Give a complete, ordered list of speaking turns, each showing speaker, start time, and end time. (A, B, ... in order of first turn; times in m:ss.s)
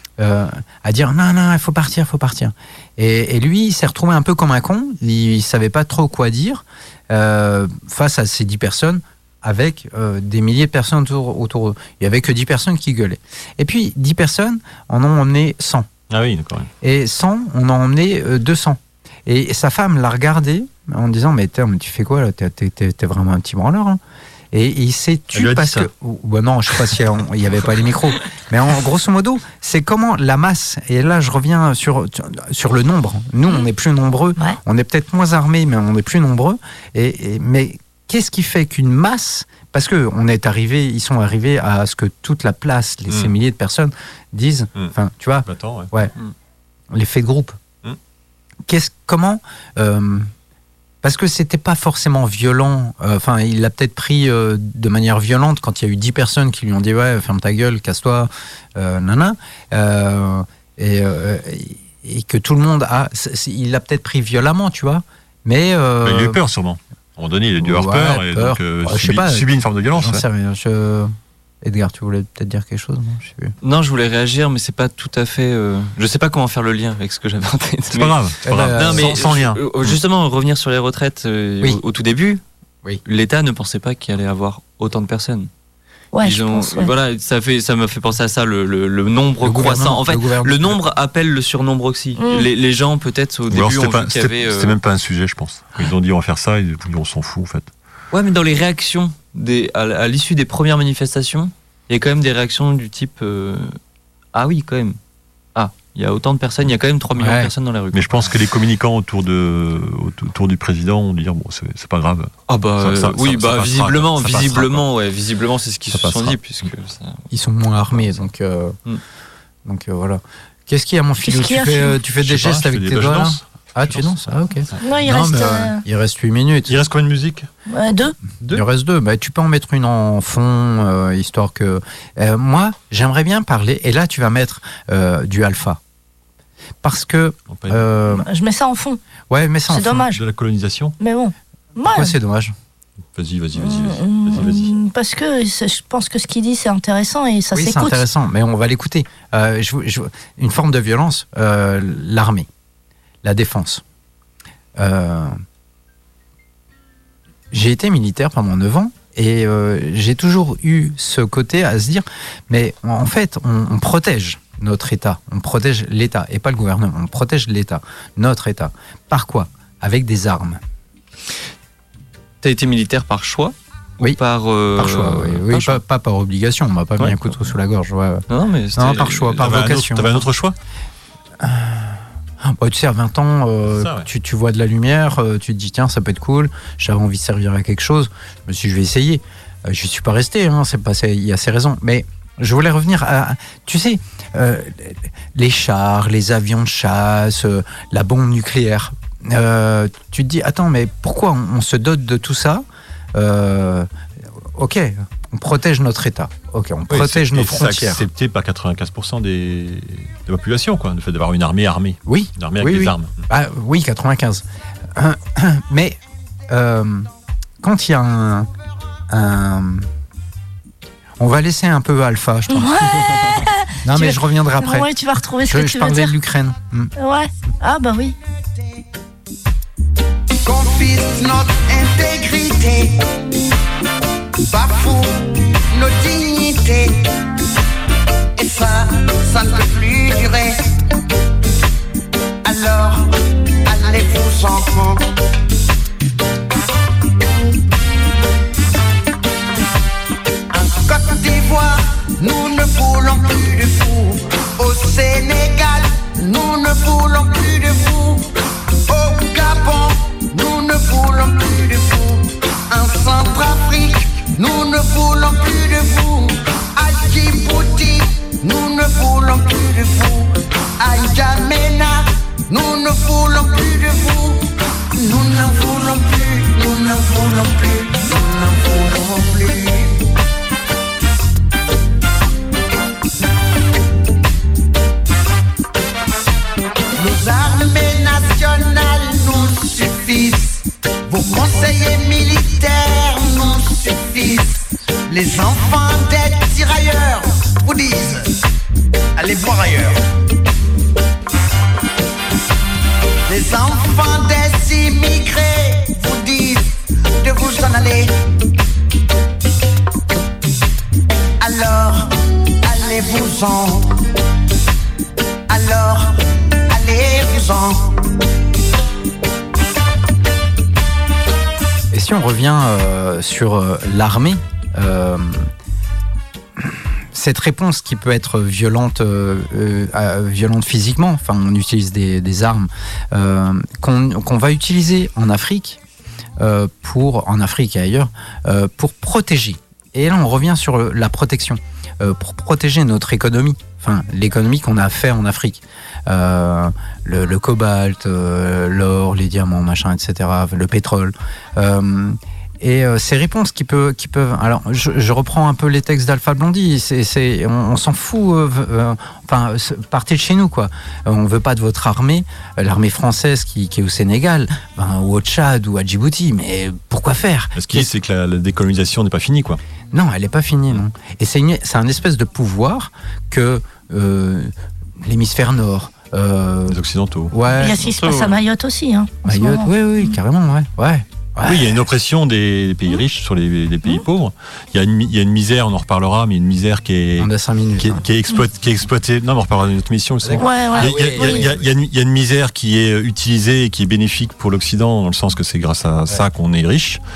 0:00.2-0:15.9 A
0:16.1-0:16.7 B
0:16.8-0:24.0 A
0:24.5-0:46.1 A
0:25.3-0:25.9 B
0:45.5-0:45.9 B
0:46.9-0:47.6 A
0:48.7-0:50.3 A
0:51.0-1:06.4 A
1:06.0-1:10.2 B
1:07.6-1:11.1 A
1:11.6-1:13.5 A
1:13.6-1:18.2 C
1:17.9-1:20.0 B
1:18.4-1:19.2 A
1:18.7-1:22.4 C
1:23.0-1:25.5 C
1:26.1-1:26.9 D
1:26.2-1:34.8 C
1:29.4-1:30.8 A
1:32.2-1:32.5 D
1:33.5-1:37.7 B
1:38.1-1:43.8 C
1:44.3-1:45.0 C
1:45.6-1:48.2 C
1:47.2-1:47.5 A
1:47.9-1:54.8 B
1:52.5-1:57.2 C
1:55.9-1:56.4 B
1:57.3-1:58.8 A
1:59.6-2:06.7 A
2:01.2-2:02.0 D
2:02.2-2:04.8 B
2:04.8-2:05.8 D
2:06.7-2:07.5 B
2:07.7-2:08.2 D
2:08.5-2:15.8 A
2:16.8-2:18.3 A
2:17.5-2:17.8 B
2:18.1-2:19.0 D
2:19.3-2:20.1 A
2:19.7-2:20.2 D
2:20.1-2:21.0 B
2:21.0-2:22.1 D
2:21.8-2:22.5 A
2:23.2-2:24.7 B
2:23.6-2:28.0 D
2:27.5-2:32.5 A
2:33.2-2:33.8 A
2:34.8-2:35.4 A
2:37.5-2:50.6 A
2:52.4-2:55.8 C
2:54.8-3:00.3 A
2:58.3-2:59.4 C
2:59.2-3:00.6 B
3:01.4-3:23.9 A
3:03.7-3:04.1 B
3:24.4-3:28.0 A
3:26.9-3:33.2 B
3:32.1-3:34.4 A
3:35.0-3:37.1 A
3:37.6-3:38.5 A
3:39.1-3:39.9 A
3:41.2-3:43.3 A
3:42.5-3:46.1 D
3:43.8-3:44.9 A
3:45.5-3:46.9 A
3:47.0-3:48.2 D
3:50.4-3:53.1 E
3:54.5-3:57.1 E
3:58.4-4:00.6 E
4:02.4-4:05.0 E
4:10.5-4:18.3 E
4:18.9-4:40.0 E
4:47.0-4:58.4 E
4:59.2-5:00.0 E
5:03.3-5:08.2 E
5:11.4-5:14.0 E
5:15.5-5:18.0 E
5:21.9-5:25.5 A
5:26.6-5:35.8 A
5:36.4-6:07.9 A
6:07.6-6:09.6 B
6:09.9-6:16.8 A
6:16.7-6:17.3 B
6:17.3-6:17.9 A
6:17.6-6:20.2 D
6:17.7-6:18.4 C
6:19.2-6:21.8 A
6:21.4-6:37.0 B
6:27.2-6:28.0 A
6:30.2-6:31.7 A
6:30.4-6:31.5 D